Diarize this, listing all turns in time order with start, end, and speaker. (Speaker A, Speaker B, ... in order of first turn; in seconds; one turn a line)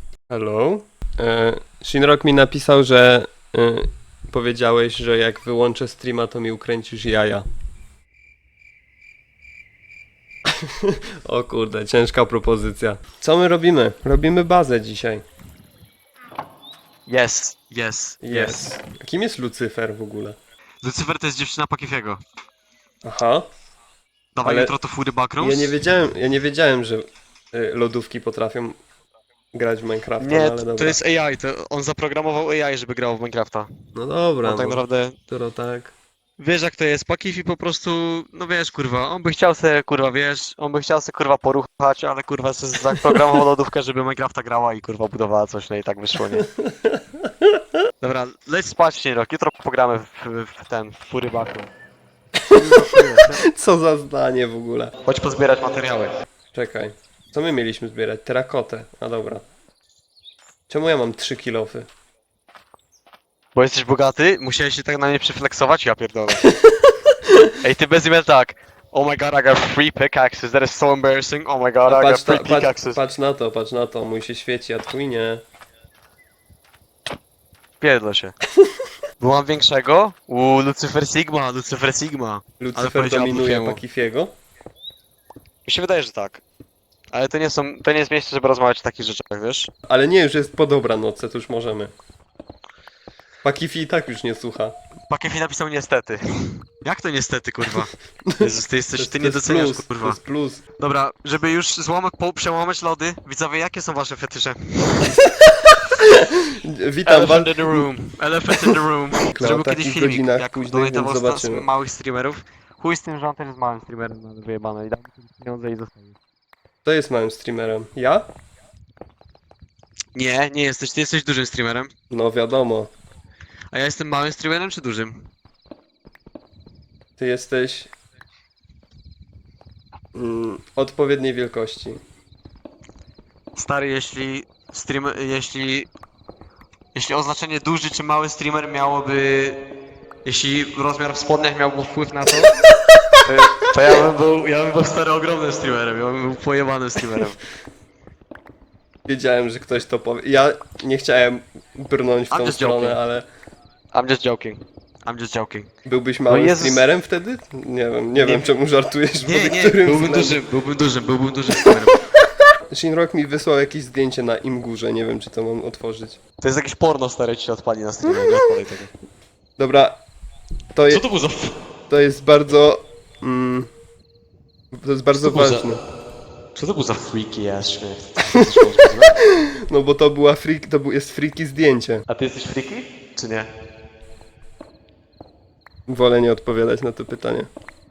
Speaker A: 0.3-7.5
Speaker A: 10.5-15.2
Speaker B: 17.1-18.6
Speaker A: 18.2-20.4
Speaker B: 20.8-22.2
Speaker A: 23.0-23.5
Speaker B: 24.4-25.7
Speaker A: 24.4-24.8
Speaker A: 25.4-28.8
Speaker A: 29.5-31.0
Speaker B: 30.2-33.7
Speaker A: 34.0-36.0
Speaker B: 34.4-35.2
Speaker B: 36.4-46.5
Speaker A: 46.4-47.7
Speaker B: 48.0-51.7
Speaker A: 52.4-54.9
Speaker B: 52.5-53.5
Speaker B: 55.0-56.1
Speaker A: 56.5-59.5
Speaker A: 60.7-61.9
Speaker B: 63.5-66.5
Speaker A: 66.4-67.5
Speaker B: 67.6-73.0
Speaker A: 71.9-75.4
Speaker B: 77.8-78.4
Speaker B: 79.2-83.8
Speaker A: 82.6-84.3
Speaker B: 85.7-86.4
Speaker B: 87.1-89.7
Speaker A: 89.9-91.9
Speaker A: 93.4-94.8
Speaker B: 95.1-100.2
Speaker A: 98.3-100.6
Speaker B: 100.8-105.2
Speaker A: 105.2-107.9
Speaker B: 107.1-116.2
Speaker A: 109.3-111.7
Speaker A: 116.8-118.3
Speaker B: 120.2-121.9
Speaker A: 122.1-122.9
Speaker B: 123.7-125.3
Speaker A: 127.2-127.9
Speaker A: 130.1-132.0
Speaker B: 133.6-135.9
Speaker B: 136.9-139.6
Speaker B: 140.2-142.6
Speaker B: 143.2-147.4
Speaker A: 149.1-153.3
Speaker B: 152.3-153.0
Speaker B: 153.9-155.7
Speaker A: 155.9-160.4
Speaker B: 156.3-156.9
Speaker B: 158.2-158.5
Speaker B: 159.2-162.1
Speaker A: 162.7-166.2
Speaker B: 166.4-168.9
Speaker A: 169.6-170.0
Speaker A: 170.7-171.0
Speaker B: 170.9-171.6
Speaker A: 171.9-173.7
Speaker A: 174.7-175.8
Speaker B: 175.2-175.7
Speaker B: 176.6-179.2
Speaker A: 178.3-182.1
Speaker B: 182.1-183.5
Speaker A: 185.9-187.5